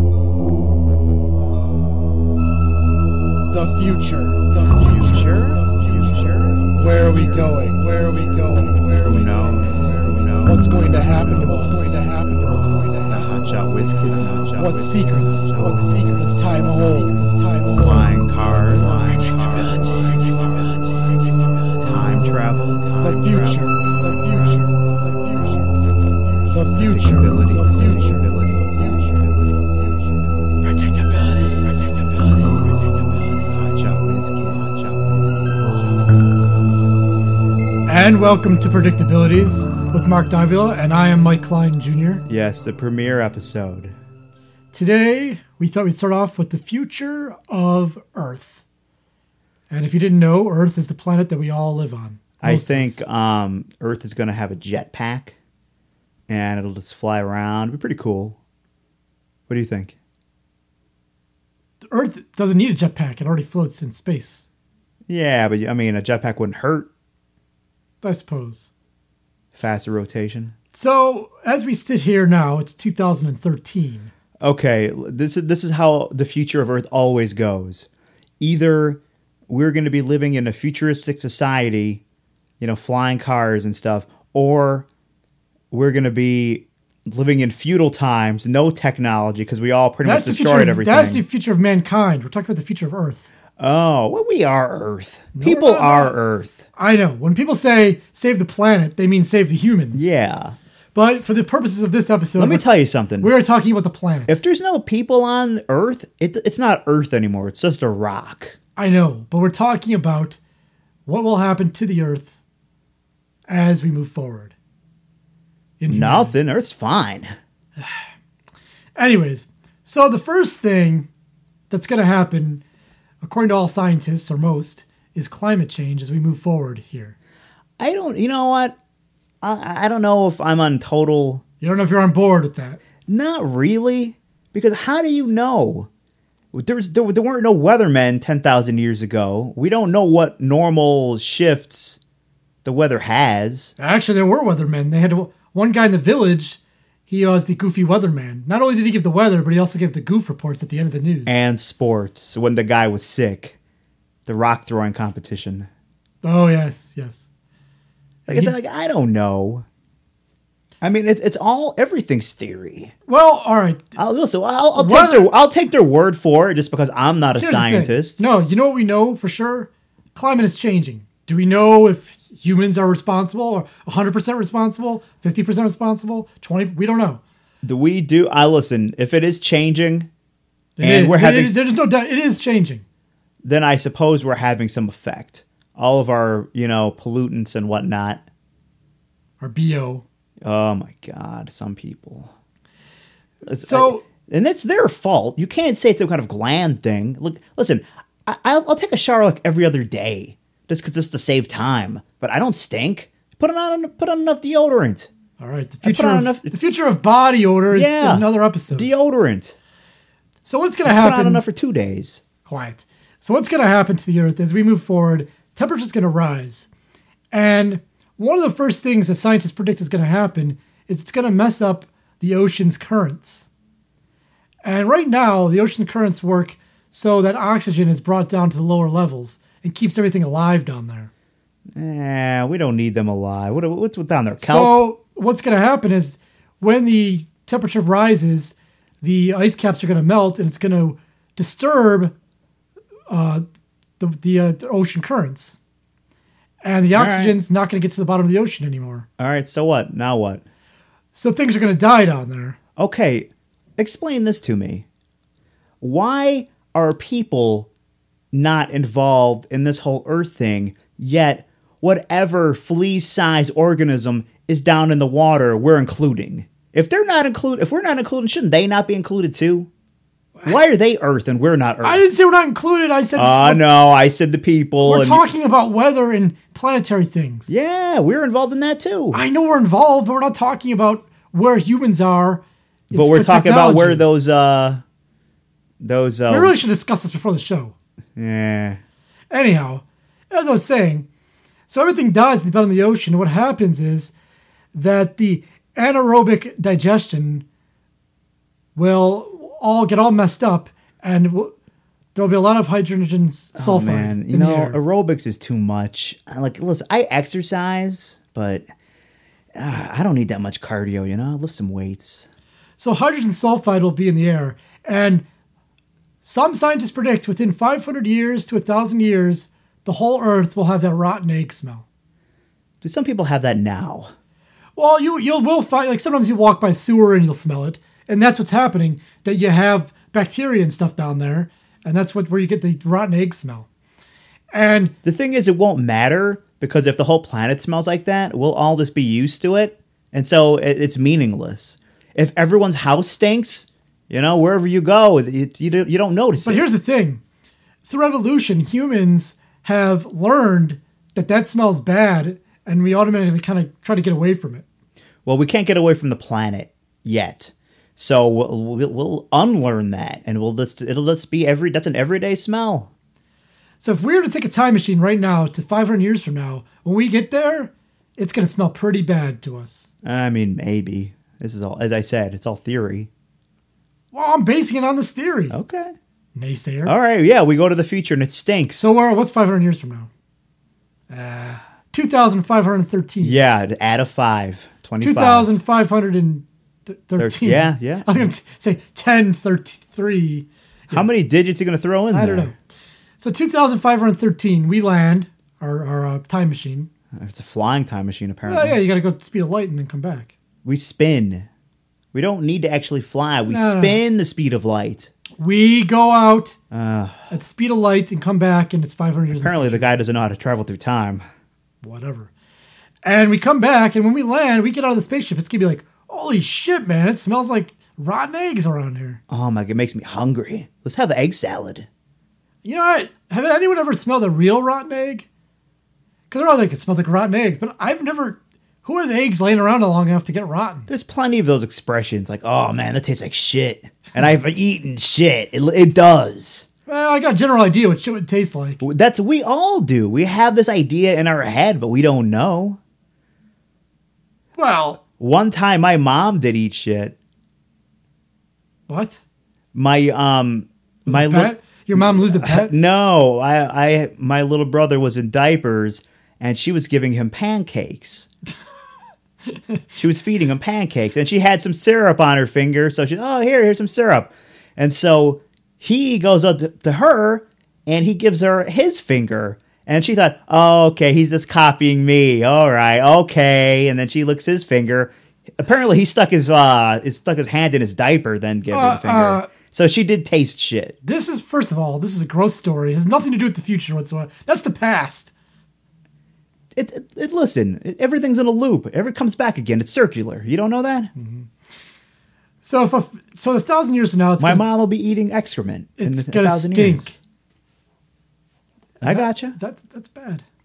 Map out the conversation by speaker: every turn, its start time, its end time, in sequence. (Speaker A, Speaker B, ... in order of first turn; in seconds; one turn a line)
Speaker A: 3.5-5.7
Speaker B: 4.8-7.5
Speaker A: 6.7-9.4
Speaker B: 9.0-11.9
Speaker A: 10.4-13.2
Speaker B: 13.1-15.9
Speaker A: 14.6-18.2
Speaker B: 17.7-20.4
Speaker A: 18.9-19.2
Speaker A: 19.8-20.5
Speaker B: 21.8-24.4
Speaker A: 23.0-24.7
Speaker A: 26.5-28.2
Speaker B: 26.7-29.8
Speaker B: 31.6-31.9
Speaker B: 33.5-35.8
Speaker A: 37.9-42.2
Speaker B: 42.3-43.9
Speaker A: 44.7-48.6
Speaker A: 49.7-53.0
Speaker B: 52.4-55.4
Speaker B: 56.3-58.4
Speaker B: 59.5-60.0
Speaker A: 61.9-64.5
Speaker B: 65.1-66.9
Speaker A: 68.0-68.7
Speaker B: 69.5-70.5
Speaker A: 70.7-74.1
Speaker B: 74.4-77.9
Speaker B: 78.4-82.0
Speaker B: 82.6-84.9
Speaker B: 85.7-91.2
Speaker A: 90.0-93.3
Speaker B: 93.6-96.7
Speaker A: 95.3-96.2
Speaker A: 96.8-100.1
Speaker B: 99.9-100.6
Speaker A: 101.0-104.3
Speaker B: 102.4-103.3
Speaker B: 104.3-108.6
Speaker A: 108.8-110.4
Speaker A: 111.1-112.3
Speaker A: 113.5-114.5
Speaker A: 115.8-116.3
Speaker B: 115.9-117.3
Speaker A: 117.8-118.0
Speaker A: 119.0-121.1
Speaker A: 121.7-122.6
Speaker A: 123.2-127.2
Speaker B: 127.8-128.8
Speaker B: 129.4-131.4
Speaker A: 131.6-132.8
Speaker B: 133.1-135.9
Speaker B: 136.5-142.0
Speaker B: 142.6-143.7
Speaker A: 143.8-151.3
Speaker B: 151.3-153.6
Speaker B: 154.3-155.7
Speaker A: 156.2-157.3
Speaker A: 158.3-158.6
Speaker B: 158.3-159.7
Speaker B: 160.8-162.9
Speaker A: 163.1-163.8
Speaker B: 164.0-168.2
Speaker A: 164.8-165.3
Speaker A: 167.4-177.2
Speaker B: 177.6-180.1
Speaker A: 180.8-182.8
Speaker B: 180.8-181.6
Speaker B: 183.4-188.2
Speaker A: 189.4-190.0
Speaker B: 190.4-192.3
Speaker B: 193.5-205.1
Speaker A: 193.6-194.0
Speaker A: 205.4-208.9
Speaker B: 205.8-206.5
Speaker B: 207.7-209.6
Speaker A: 210.4-211.4
Speaker B: 210.9-212.2
Speaker A: 212.4-216.7
Speaker A: 217.3-223.4
Speaker A: 224.6-231.1
Speaker B: 231.8-234.8
Speaker A: 234.4-242.1
Speaker A: 243.1-243.4
Speaker A: 244.0-245.6
Speaker A: 246.6-249.1
Speaker B: 246.9-247.4
Speaker B: 249.2-250.4
Speaker A: 251.1-252.6
Speaker B: 252.8-254.9
Speaker B: 255.8-257.7
Speaker B: 258.3-269.7
Speaker B: 270.5-272.0
Speaker A: 271.8-273.6
Speaker B: 273.2-275.2
Speaker A: 274.8-277.5
Speaker B: 277.5-279.2
Speaker A: 279.1-284.1
Speaker B: 282.9-284.8
Speaker B: 285.8-286.5
Speaker A: 286.3-287.8
Speaker B: 288.2-288.8
Speaker A: 289.3-291.1
Speaker A: 291.7-294.1
Speaker A: 294.7-297.4
Speaker A: 298.8-301.5
Speaker A: 302.1-304.8
Speaker B: 303.6-308.6
Speaker B: 309.6-312.3
Speaker A: 312.8-315.2
Speaker A: 316.2-321.8
Speaker B: 322.8-324.1
Speaker A: 324.8-333.7
Speaker A: 334.5-334.9
Speaker B: 335.0-346.6
Speaker A: 346.4-347.2
Speaker A: 347.9-354.6
Speaker B: 355.2-362.9
Speaker A: 363.8-369.9
Speaker B: 370.0-373.1
Speaker A: 374.1-375.6
Speaker B: 375.5-375.9
Speaker A: 376.4-376.9
Speaker B: 376.9-378.9
Speaker A: 378.8-380.1
Speaker A: 381.1-383.4
Speaker B: 383.2-385.5
Speaker A: 385.0-391.1
Speaker B: 387.2-388.2
Speaker B: 390.9-392.5
Speaker A: 392.1-392.6
Speaker A: 393.2-396.9
Speaker B: 397.1-398.8
Speaker A: 398.5-400.3
Speaker B: 400.6-401.5
Speaker B: 402.1-405.1
Speaker A: 403.5-404.0
Speaker A: 405.4-406.6
Speaker B: 406.7-407.3
Speaker A: 407.3-409.9
Speaker B: 409.4-411.2
Speaker A: 411.8-412.3
Speaker A: 413.0-419.2
Speaker B: 419.3-421.9
Speaker A: 422.6-425.3
Speaker A: 426.3-430.9
Speaker B: 430.9-436.7
Speaker A: 436.9-438.8
Speaker B: 438.8-442.8
Speaker A: 444.6-445.0
Speaker B: 445.2-447.2
Speaker A: 448.9-449.2
Speaker B: 449.7-458.3
Speaker A: 451.1-452.7
Speaker B: 459.9-481.0
Speaker A: 478.7-479.5
Speaker A: 481.0-485.3
Speaker B: 486.8-491.1
Speaker A: 491.2-491.5
Speaker A: 492.6-494.6
Speaker B: 494.4-497.1
Speaker A: 496.0-497.2
Speaker A: 499.0-500.4
Speaker B: 499.0-499.6